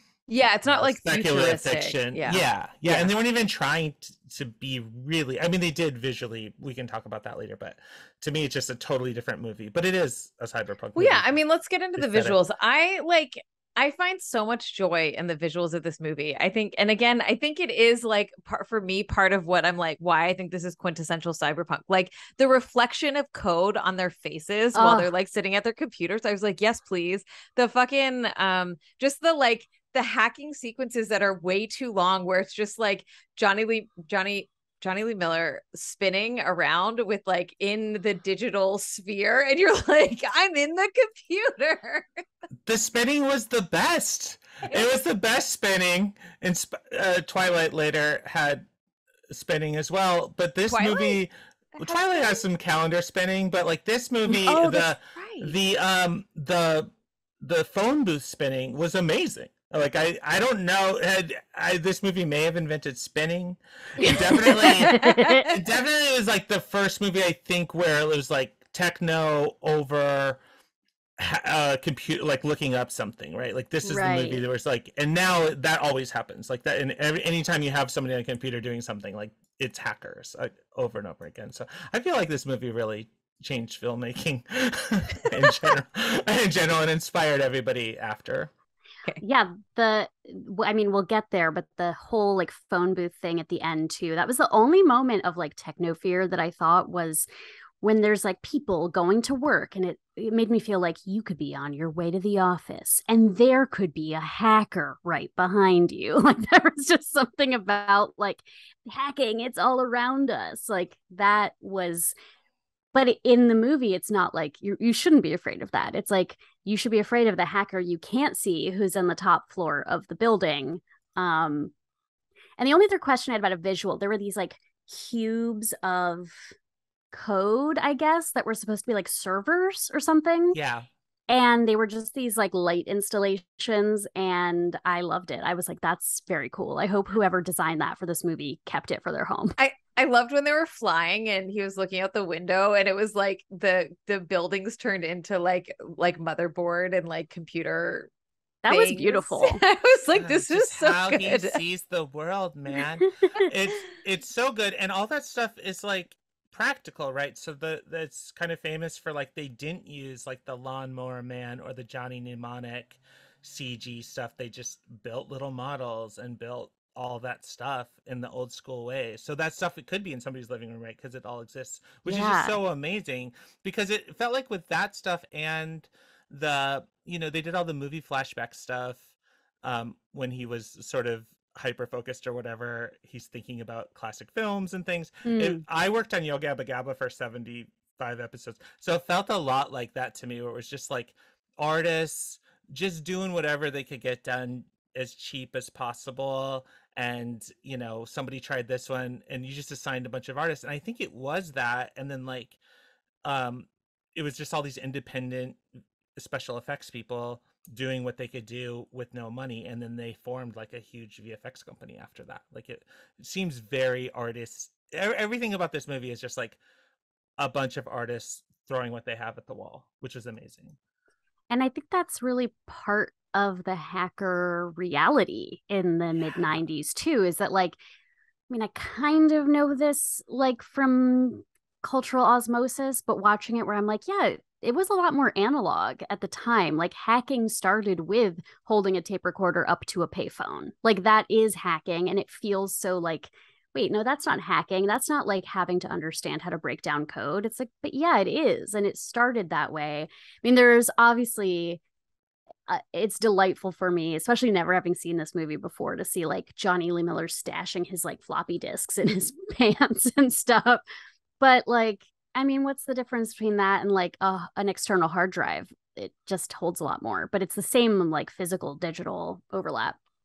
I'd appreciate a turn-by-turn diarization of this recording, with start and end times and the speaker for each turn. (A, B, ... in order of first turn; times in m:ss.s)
0:00.3-0:03.1 A
0:00.6-0:11.3 B
0:11.0-0:42.0 A
0:12.0-0:12.4 B
0:24.7-0:25.1 C
0:42.6-0:48.7 B
0:49.3-1:10.4 B
0:50.7-0:51.2 A
0:51.8-0:52.4 A
0:54.3-0:55.5 A
1:04.0-1:05.5 A
1:04.5-1:05.5 C
1:11.2-1:28.5 B
1:13.8-1:14.4 C
1:29.2-1:37.3 C
1:37.8-1:52.1 C
1:52.9-2:01.7 C
2:02.6-2:06.5 C
2:07.1-2:10.6 C
2:10.5-2:10.9 B
2:11.3-2:19.6 C
2:19.6-2:28.1 A
2:28.6-2:29.6 C
2:28.7-2:31.6 A
2:30.2-2:59.1 B
2:52.0-2:52.6 C
2:59.6-3:22.6 B
3:05.2-3:05.6 C
3:23.2-3:25.6 B
3:26.2-3:36.6 B
3:37.4-3:40.8 B
3:41.5-3:47.8 C
3:48.5-4:11.8 C
4:12.7-4:20.8 C
4:21.4-4:30.0 C